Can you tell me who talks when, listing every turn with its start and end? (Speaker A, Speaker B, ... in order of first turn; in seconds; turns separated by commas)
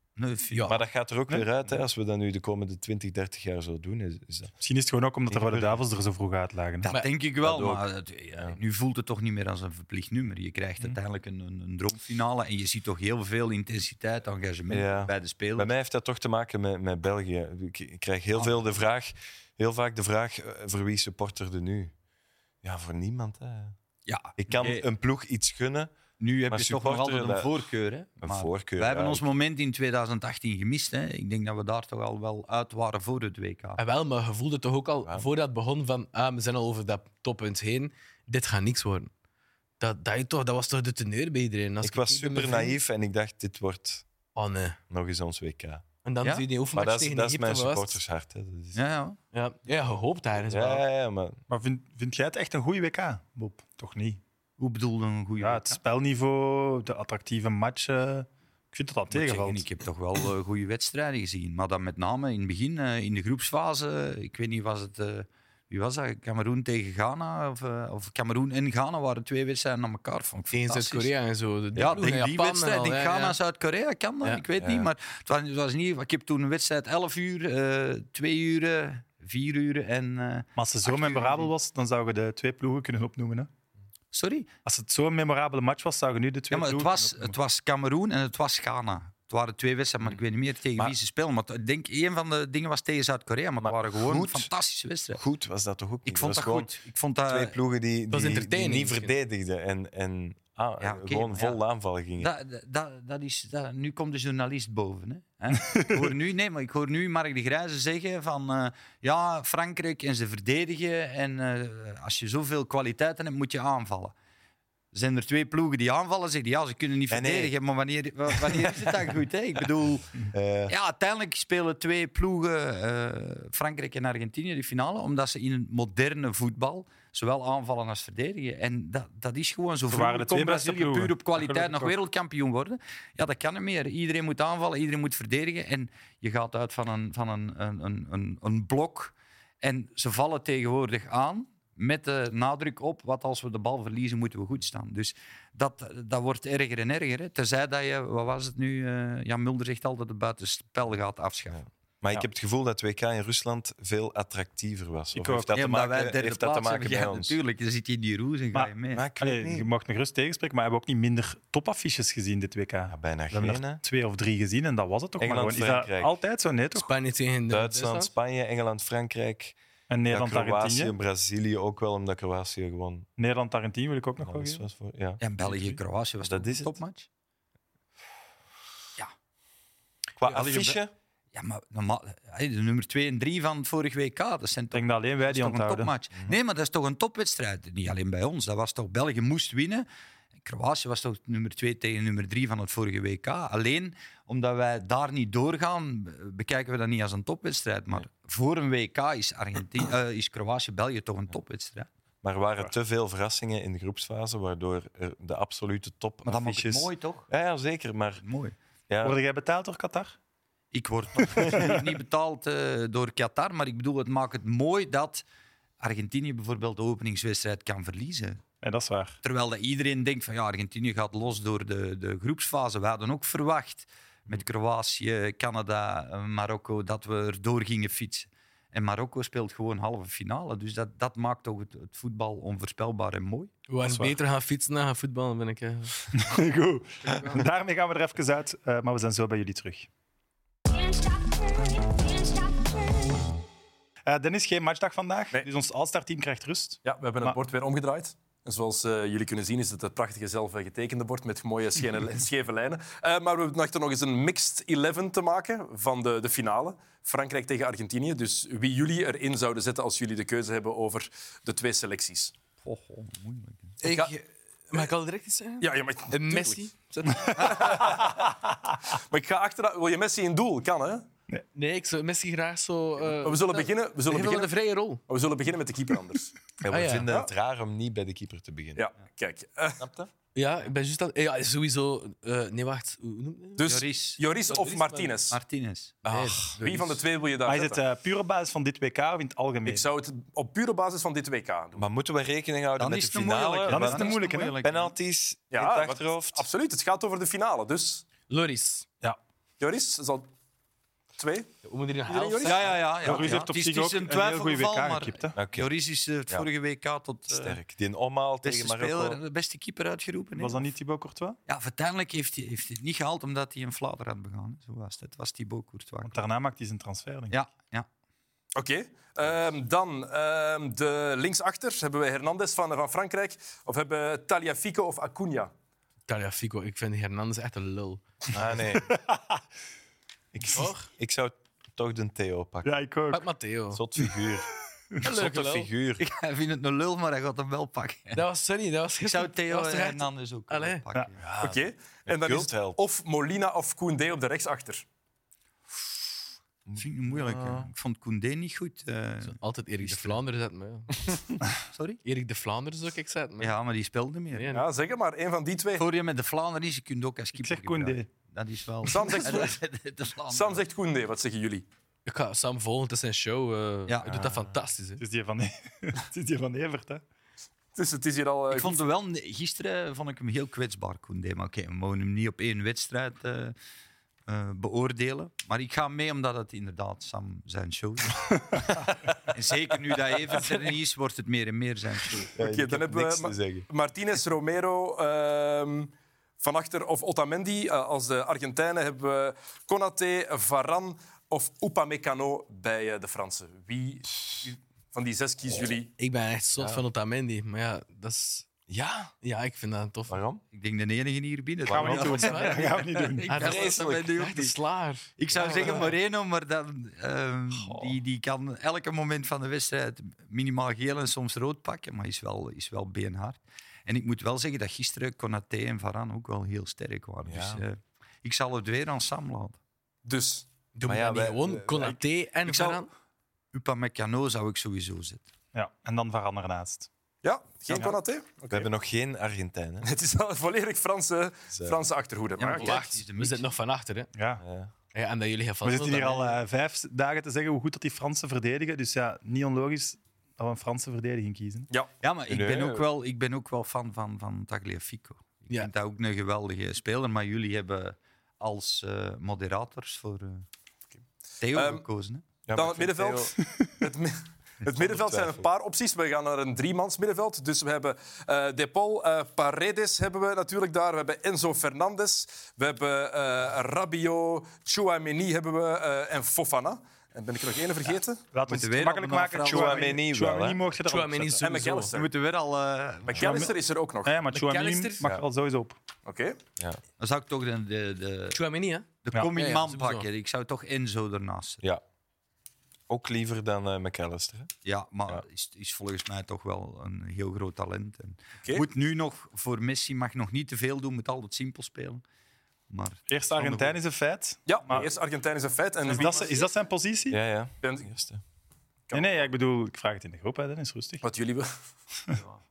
Speaker A: 0.2-0.8, Speaker B: 0.5-0.8, Speaker C: 0.7-4.5, Speaker D: 4.6-6.9, Speaker C: 5.3-5.8, Speaker A: 6.8-15.7, Speaker C: 7.4-8.6, Speaker C: 14.7-21.9, Speaker C: 22.6-23.8, Speaker A: 24.1-24.8, Speaker C: 24.4-25.9, Speaker A: 26.2-33.8, Speaker C: 26.5-27.6, Speaker C: 28.2-29.3, Speaker B: 33.8-39.1, Speaker B: 39.8-42.8, Speaker C: 41.8-44.0, Speaker B: 44.4-44.8, Speaker C: 44.9-45.8, Speaker B: 46.0-48.0, Speaker C: 46.7-48.8, Speaker A: 48.8-49.2, Speaker B: 49.3-50.8, Speaker C: 50.5-51.4, Speaker D: 51.5-54.2, Speaker A: 54.6-55.8, Speaker D: 55.4-59.6, Speaker A: 59.1-71.1, Speaker B: 70.5-73.4, Speaker C: 71.8-72.1, Speaker A: 71.8-81.5, Speaker C: 74.6-74.9, Speaker D: 80.6-83.5, Speaker A: 84.1-84.5, Speaker D: 84.7-87.3, Speaker A: 86.5-95.2, Speaker C: 93.6-94.5, Speaker C: 95.1-102.3, Speaker A: 96.1-97.5, Speaker B: 98.1-99.1, Speaker A: 100.8-101.6, Speaker A: 102.2-114.1, Speaker A: 114.9-151.7, Speaker C: 117.1-117.5, Speaker C: 118.3-118.9, Speaker C: 120.3-120.7, Speaker D: 129.9-132.0, Speaker C: 151.5-157.4, Speaker D: 155.1-155.6, Speaker A: 155.5-159.1, Speaker D: 158.5-166.9, Speaker C: 158.9-159.7, Speaker C: 162.9-163.8, Speaker C: 165.2-166.2, Speaker B: 166.8-168.1, Speaker C: 167.5-169.6, Speaker D: 169.9-170.9, Speaker C: 170.1-173.1, Speaker D: 173.2-174.6, Speaker C: 174.2-175.2, Speaker A: 175.2-177.1, Speaker D: 175.4-175.8, Speaker C: 176.2-176.8, Speaker C: 180.2-180.9, Speaker A: 180.3-180.8, Speaker A: 181.3-189.9, Speaker D: 184.7-185.9, Speaker A: 190.4-201.9, Speaker C: 202.2-208.2, Speaker A: 206.2-207.3, Speaker A: 208.2-208.6, Speaker C: 208.9-209.2, Speaker D: 209.0-210.2, Speaker A: 210.7-215.2, Speaker D: 211.5-211.8, Speaker A: 215.8-218.4, Speaker D: 218.6-219.2, Speaker A: 219.2-233.5, Speaker B: 233.7-236.3, Speaker D: 233.8-234.1, Speaker D: 236.1-239.9, Speaker B: 237.0-237.4, Speaker D: 244.1-247.4, Speaker E: 246.8-262.3, Speaker A: 262.6-263.8, Speaker B: 263.8-268.0, Speaker E: 263.9-264.1, Speaker E: 265.6-266.7, Speaker E: 267.4-268.3, Speaker E: 268.9-271.1, Speaker B: 271.6-275.0, Speaker E: 273.2-274.5, Speaker E: 275.1-276.4, Speaker C: 276.6-278.9, Speaker B: 276.7-277.1, Speaker E: 278.8-279.8, Speaker C: 279.8-280.1, Speaker B: 280.4-283.6, Speaker E: 283.6-285.4, Speaker A: 283.6-284.2, Speaker B: 284.5-285.2, Speaker A: 285.3-286.0, Speaker C: 286.1-286.5, Speaker B: 286.1-287.0, Speaker E: 286.6-287.8, Speaker D: 287.5-289.9, Speaker E: 289.6-291.9, Speaker C: 291.8-296.5, Speaker A: 292.8-294.9, Speaker D: 293.7-294.5, Speaker E: 295.5-298.1, Speaker B: 298.3-298.9, Speaker E: 299.6-300.3, Speaker E: 301.2-301.5, Speaker B: 301.6-302.8, Speaker E: 302.1-302.8, Speaker A: 302.4-307.6, Speaker D: 303.0-305.4, Speaker C: 305.4-305.7, Speaker C: 307.3-309.2, Speaker A: 308.4-310.6, Speaker D: 310.4-311.4, Speaker A: 311.5-316.2, Speaker D: 316.0-317.3, Speaker A: 317.3-317.9, Speaker E: 318.6-325.5, Speaker B: 326.1-328.0, Speaker C: 328.3-328.9, Speaker D: 328.9-329.4, Speaker C: 330.3-332.8, Speaker B: 330.5-330.9, Speaker D: 332.6-333.2, Speaker B: 333.1-333.8, Speaker C: 333.7-334.5, Speaker C: 335.0-336.0, Speaker B: 335.0-335.7, Speaker A: 336.0-338.2, Speaker B: 338.1-340.8, Speaker A: 339.0-341.3, Speaker C: 341.2-342.8, Speaker E: 341.4-344.9, Speaker A: 345.8-346.1, Speaker C: 346.7-347.7, Speaker A: 346.8-350.2, Speaker B: 349.3-351.2, Speaker A: 351.7-352.0, Speaker B: 352.0-353.6, Speaker A: 353.4-354.6, Speaker B: 354.4-354.6, Speaker E: 354.5-355.9, Speaker A: 355.8-360.6, Speaker D: 357.4-358.1, Speaker E: 358.9-359.6, Speaker E: 360.3-361.7, Speaker B: 362.1-365.0, Speaker A: 363.9-364.2, Speaker D: 365.0-367.0, Speaker E: 367.8-368.8, Speaker A: 368.5-373.6, Speaker A: 374.3-382.4, Speaker C: 382.4-383.7, Speaker E: 382.4-395.9, Speaker B: 396.0-398.5, Speaker C: 396.6-396.8, Speaker C: 398.7-399.1, Speaker B: 399.2-400.2, Speaker C: 400.1-400.4, Speaker A: 400.5-404.5, Speaker D: 401.7-403.3, Speaker B: 401.7-405.8, Speaker C: 403.4-404.1, Speaker A: 405.2-419.6, Speaker C: 407.5-408.0, Speaker C: 417.2-417.6, Speaker E: 420.1-420.5, Speaker B: 420.8-422.9, Speaker C: 420.8-422.0, Speaker A: 422.5-422.8, Speaker A: 423.5-425.2, Speaker D: 425.5-426.9, Speaker E: 427.2-428.7, Speaker C: 428.5-429.9, Speaker E: 429.8-432.9, Speaker C: 431.5-431.8, Speaker A: 432.4-433.4, Speaker B: 432.5-434.1, Speaker D: 434.1-434.4, Speaker C: 434.4-434.7, Speaker B: 434.9-436.4, Speaker D: 435.6-441.7, Speaker A: 442.0-450.4, Speaker C: 442.3-442.9, Speaker A: 451.4-452.2, Speaker E: 451.5-451.9, Speaker C: 452.5-453.3, Speaker E: 452.5-468.3, Speaker C: 454.7-455.5, Speaker D: 468.3-471.5, Speaker A: 468.5-470.0, Speaker C: 469.4-470.6, Speaker B: 470.9-471.9, Speaker E: 471.4-472.1, Speaker A: 471.9-473.5, Speaker E: 473.1-474.2, Speaker D: 473.2-473.5, Speaker D: 474.0-475.8, Speaker B: 474.3-475.0, Speaker E: 476.1-476.4, Speaker A: 477.0-478.4, Speaker B: 478.4-480.1, Speaker A: 479.0-481.6, Speaker C: 482.9-484.5, Speaker A: 484.6-492.0, Speaker A: 492.7-493.8, Speaker D: 493.1-494.9, Speaker E: 494.5-496.5, Speaker D: 495.9-497.2, Speaker C: 497.1-498.2, Speaker E: 497.6-497.9, Speaker E: 498.9-499.3, Speaker D: 498.9-501.0, Speaker E: 501.0-501.5